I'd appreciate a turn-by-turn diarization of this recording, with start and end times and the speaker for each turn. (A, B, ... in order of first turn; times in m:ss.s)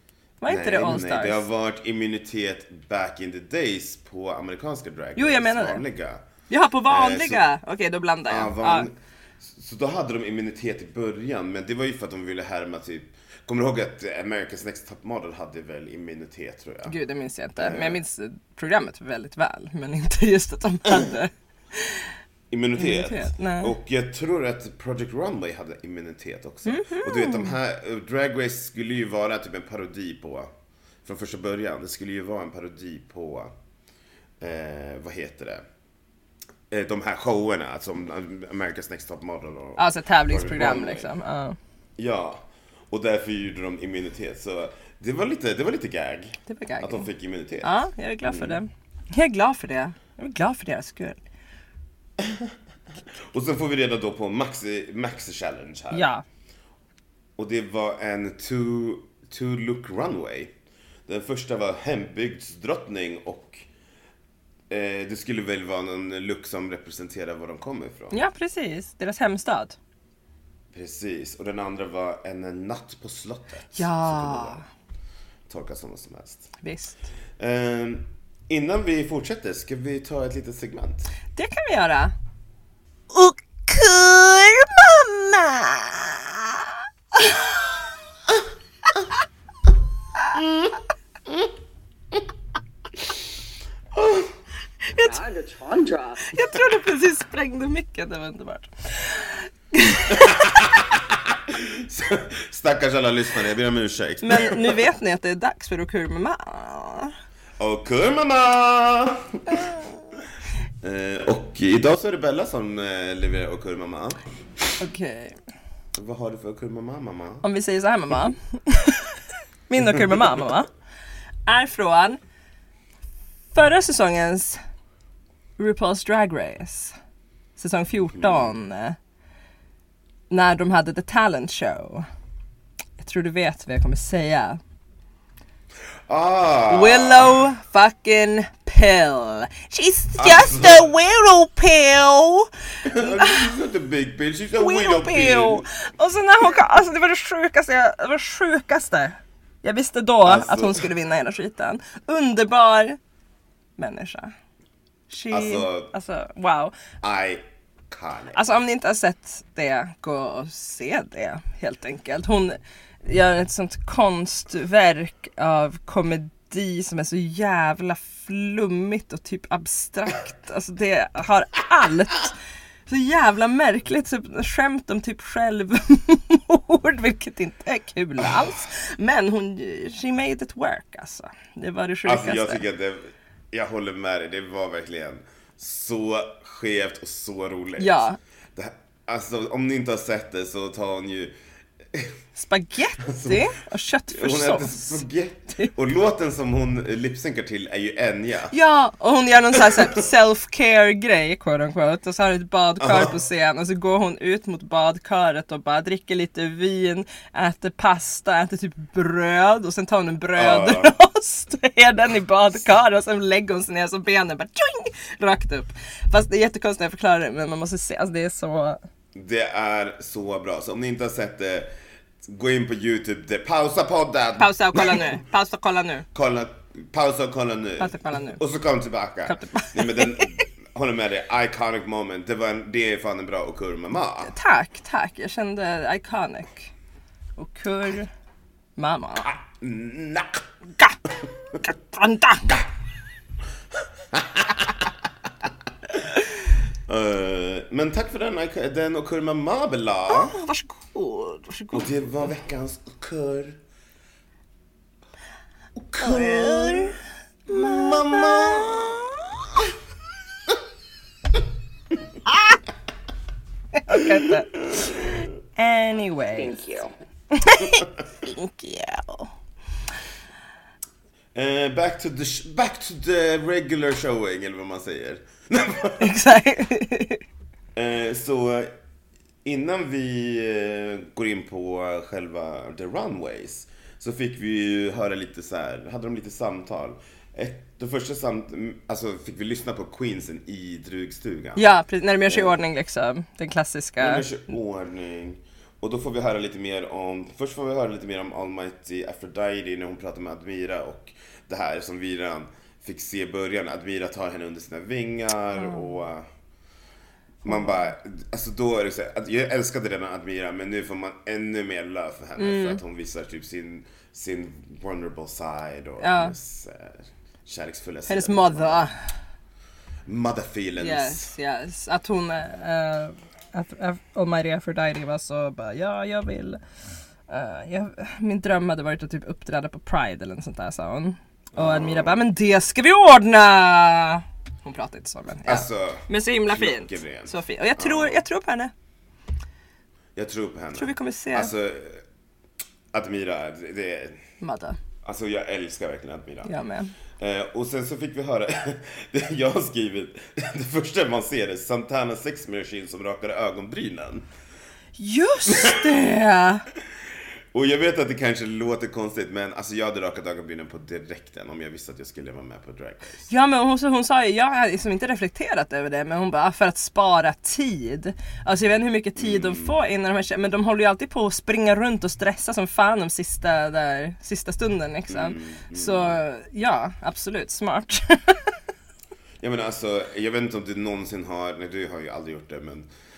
0:00.4-0:01.4 A
0:00.5-0:06.2 B
0:05.2-0:05.8 A
0:06.5-0:08.9 A
0:06.9-0:07.4 B
0:08.3-0:17.0 B
0:16.9-0:22.1 A
0:17.6-0:18.0 B
0:22.5-0:30.5 B
0:22.8-0:23.8 A
0:26.7-0:27.6 A
0:31.0-0:33.5 B
0:34.4-0:35.6 B
0:36.7-0:41.1 B
0:39.8-0:41.6 A
0:42.0-0:48.6 B
0:46.5-0:47.1 A
0:47.6-0:51.2 A
0:52.2-0:52.5 B
0:53.3-0:56.1 B
0:55.9-0:56.2 A
0:57.4-1:00.5 B
1:01.1-1:03.6 B
1:04.7-1:08.2 B
1:08.1-1:09.8 A
1:10.7-1:14.6 B
1:13.8-1:14.6 A
1:15.5-1:16.5 B
1:16.6-1:17.0 A
1:17.4-1:21.1 B
1:21.4-1:22.2 A
1:23.1-1:27.6 A
1:30.4-1:30.7 B
1:33.9-1:34.3 B
1:34.8-1:35.2 A
1:35.0-1:36.4 C
1:36.2-1:40.6 A
1:40.1-1:44.8 B
1:44.2-1:47.1 A
1:47.6-1:49.7 B
1:50.8-1:54.2 B
1:54.8-1:55.4 A
1:56.0-1:57.4 B
1:57.4-2:00.7 A
2:01.5-2:02.2 A
2:03.5-2:04.6 A
2:05.6-2:07.0 A
2:07.6-2:09.0 A
2:08.2-2:08.5 B
2:10.3-2:12.1 A
2:13.0-2:14.6 A
2:16.1-2:17.4 B
2:16.7-2:23.5 A
2:20.2-2:20.9 B
2:22.8-2:25.6 B
2:24.6-2:33.0 A
2:30.2-2:30.9 B
2:33.8-2:34.3 A
2:35.1-2:36.8 A
2:35.3-2:35.9 B
2:37.0-2:38.4 B
2:38.3-2:52.3 A
2:52.9-3:02.6 A
3:02.0-3:11.3 B
3:07.8-3:08.2 A
3:12.4-3:15.0 A
3:13.0-3:13.5 B
3:14.1-3:18.6 B
3:18.5-3:38.8 A
3:22.8-3:23.2 B
3:30.4-3:31.0 B
3:39.2-3:41.7 B
3:42.2-3:45.1 B
3:44.4-3:46.1 A
3:46.1-3:54.3 B
3:47.8-3:48.4 A
3:49.3-3:50.3 A
3:54.2-3:56.7 A
3:57.4-3:58.1 A
3:58.8-3:59.3 A
3:59.2-4:00.4 B
4:01.6-4:02.5 A
4:04.1-4:04.8 B
4:06.9-4:10.4 B
4:10.1-4:11.9 A
4:11.7-4:13.6 B
4:15.8-4:17.0 B
4:16.0-4:17.0 A
4:17.5-4:19.6 B
4:17.5-4:18.8 A
4:23.9-4:26.6 A
4:24.7-4:25.1 B
4:26.4-4:26.9 C
4:27.3-4:29.3 A
4:31.4-4:36.2 B
4:36.0-4:37.2 A
4:37.8-4:38.7 B
4:39.4-4:51.7 B
4:51.6-4:54.3 A
4:52.3-4:52.6 B
4:54.0-5:06.3 B
5:07.4-5:18.9 B
5:07.5-5:07.8 A
5:12.4-5:12.8 A
5:16.0-5:16.4 A
5:18.1-5:18.9 A
5:20.1-5:21.3 B
5:20.8-5:26.6 A
5:27.3-5:38.7 A
5:31.5-5:32.2 B
5:35.4-5:38.2 B
5:40.2-5:42.0 B
5:40.8-5:41.5 A
5:42.9-5:44.2 B
5:44.4-5:44.8 A
5:45.0-5:46.5 B
5:46.4-5:46.9 A
5:47.2-5:54.3 B
5:55.0-5:56.6 A
5:55.5-5:55.8 B
5:57.5-6:03.3 B
6:03.3-6:18.6 A
6:09.2-6:09.8 B
6:15.1-6:16.2 B
6:19.4-6:22.9 B